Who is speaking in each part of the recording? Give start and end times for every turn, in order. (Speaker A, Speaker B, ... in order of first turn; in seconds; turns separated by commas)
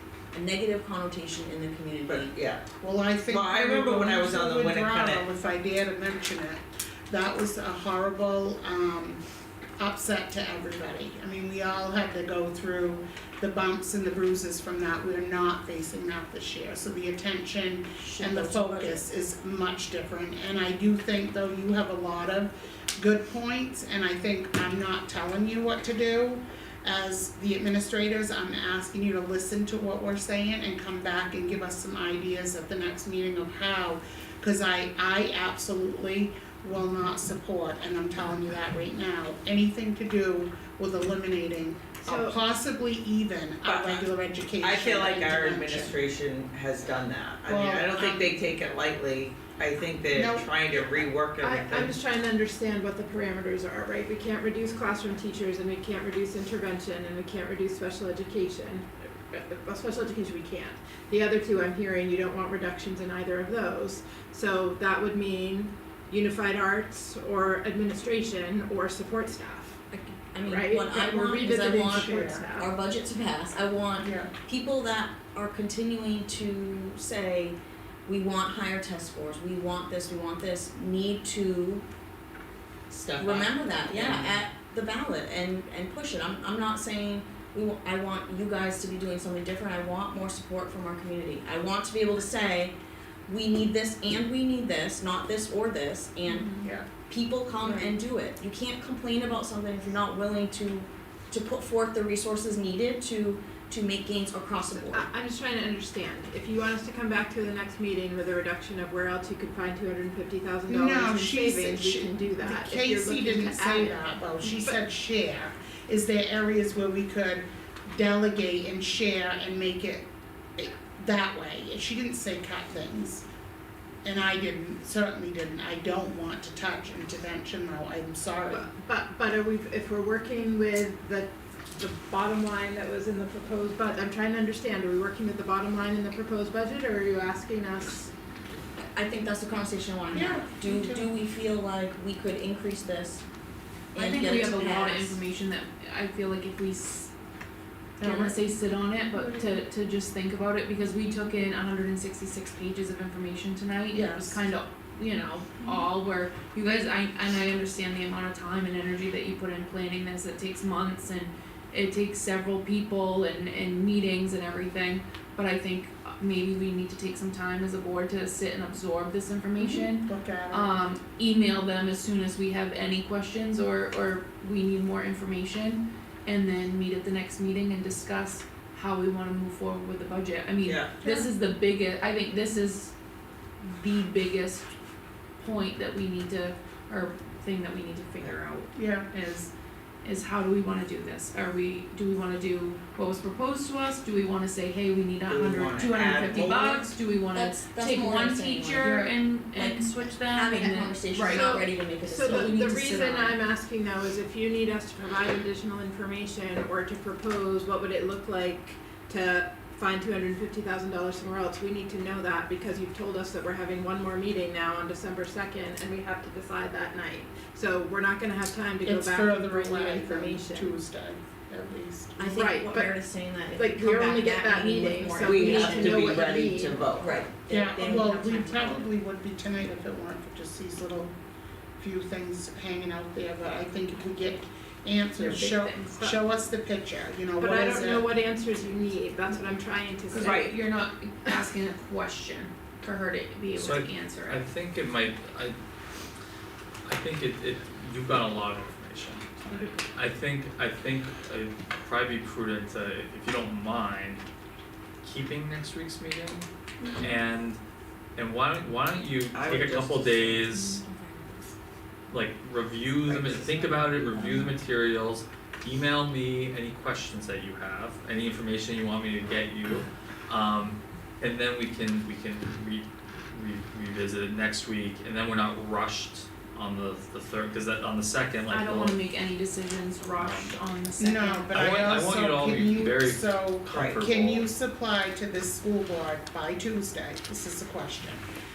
Speaker A: 0.3-2.3, Speaker B: 2.1-2.6, Speaker C: 2.8-9.2, Speaker B: 3.3-5.2, Speaker C: 9.8-46.0, Speaker A: 18.0-19.1, Speaker D: 42.0-42.4, Speaker B: 43.6-44.1, Speaker B: 44.6-51.9, Speaker C: 47.5-48.4, Speaker C: 50.1-51.1, Speaker D: 51.4-69.8, Speaker A: 69.9-81.8, Speaker D: 70.4-72.7, Speaker C: 71.5-72.5, Speaker C: 74.0-74.3, Speaker A: 82.9-92.8, Speaker B: 83.1-84.4, Speaker A: 93.3-105.1, Speaker E: 96.3-96.7, Speaker C: 96.6-96.9, Speaker D: 104.8-114.8, Speaker C: 110.7-123.2, Speaker C: 124.0-128.7, Speaker D: 128.5-138.1, Speaker A: 138.9-143.2, Speaker C: 140.1-141.1, Speaker A: 143.9-145.2, Speaker E: 144.0-147.1, Speaker E: 148.0-182.9, Speaker C: 148.0-148.4, Speaker C: 149.1-149.6, Speaker C: 153.9-154.4, Speaker A: 169.6-169.9, Speaker C: 169.9-170.8, Speaker B: 180.7-180.9, Speaker C: 181.0-181.3, Speaker E: 183.6-184.7, Speaker E: 185.4-189.5, Speaker C: 188.8-189.1, Speaker E: 190.0-201.5, Speaker B: 195.3-196.9, Speaker A: 197.3-202.6, Speaker D: 201.2-220.8, Speaker E: 202.2-203.4, Speaker C: 218.8-222.3, Speaker A: 222.2-226.4, Speaker D: 222.3-222.9, Speaker D: 223.5-226.8, Speaker B: 225.2-227.2, Speaker A: 227.0-228.9, Speaker C: 227.5-231.1, Speaker C: 231.8-238.1, Speaker E: 235.2-236.1, Speaker D: 237.4-240.6, Speaker E: 240.1-244.4, Speaker B: 240.2-240.5, Speaker F: 243.6-245.6, Speaker F: 246.8-254.2, Speaker C: 249.5-249.8, Speaker F: 255.0-256.5, Speaker F: 257.0-257.6, Speaker F: 258.2-260.8, Speaker B: 259.3-260.4, Speaker A: 260.5-261.4, Speaker F: 262.1-279.0, Speaker B: 263.1-263.4, Speaker A: 263.5-264.5, Speaker E: 278.5-281.6, Speaker F: 280.2-280.6, Speaker C: 281.0-288.2, Speaker F: 281.5-284.5, Speaker B: 283.7-284.0